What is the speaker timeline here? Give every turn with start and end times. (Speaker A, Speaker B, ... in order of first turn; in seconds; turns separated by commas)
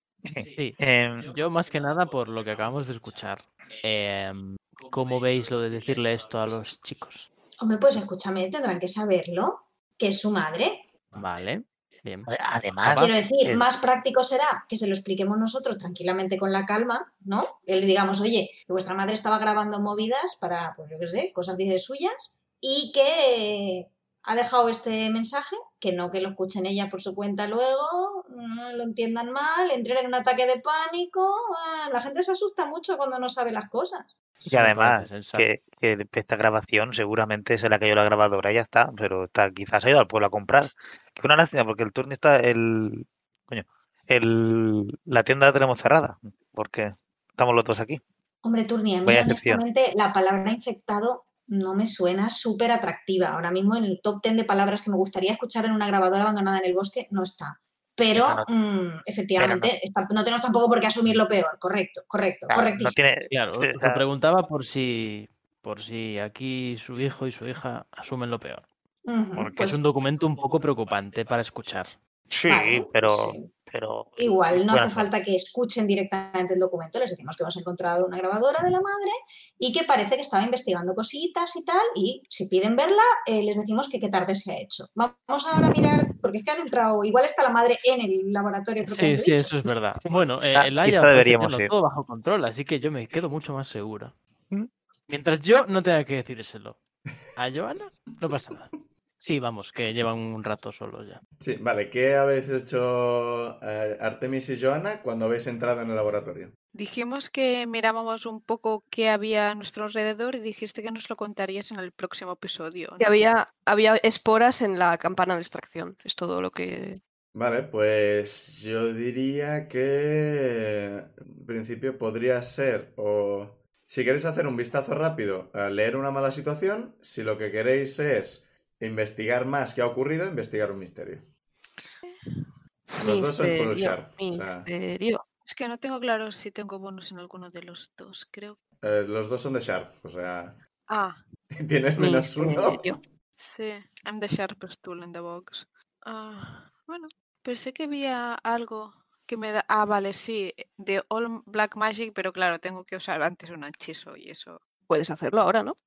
Speaker A: 0.2-1.4, Speaker B: 0.4-7.3, Speaker C: 7.6-10.9, Speaker B: 11.1-12.3, Speaker A: 12.3-13.6, Speaker C: 12.8-34.1, Speaker B: 12.8-13.1, Speaker B: 34.4-35.5, Speaker A: 34.5-48.0, Speaker C: 48.4-63.0, Speaker A: 49.0-49.6, Speaker A: 58.1-58.5, Speaker A: 59.4-59.7, Speaker A: 62.5-64.0, Speaker B: 63.3-68.7, Speaker C: 69.1-69.8, Speaker B: 69.5-72.0, Speaker A: 72.3-75.1, Speaker C: 72.5-73.5, Speaker C: 74.2-89.7, Speaker B: 88.8-94.1, Speaker A: 90.5-91.7, Speaker B: 95.1-96.8, Speaker B: 97.3-101.2, Speaker D: 101.4-106.5, Speaker E: 106.7-113.1, Speaker F: 113.0-117.0, Speaker D: 117.3-131.2, Speaker F: 132.9-135.2, Speaker D: 133.0-134.7, Speaker E: 135.4-138.6, Speaker D: 138.8-140.6, Speaker E: 140.9-141.2, Speaker D: 141.6-143.0, Speaker F: 142.0-143.0, Speaker E: 143.4-154.6, Speaker F: 154.9-155.8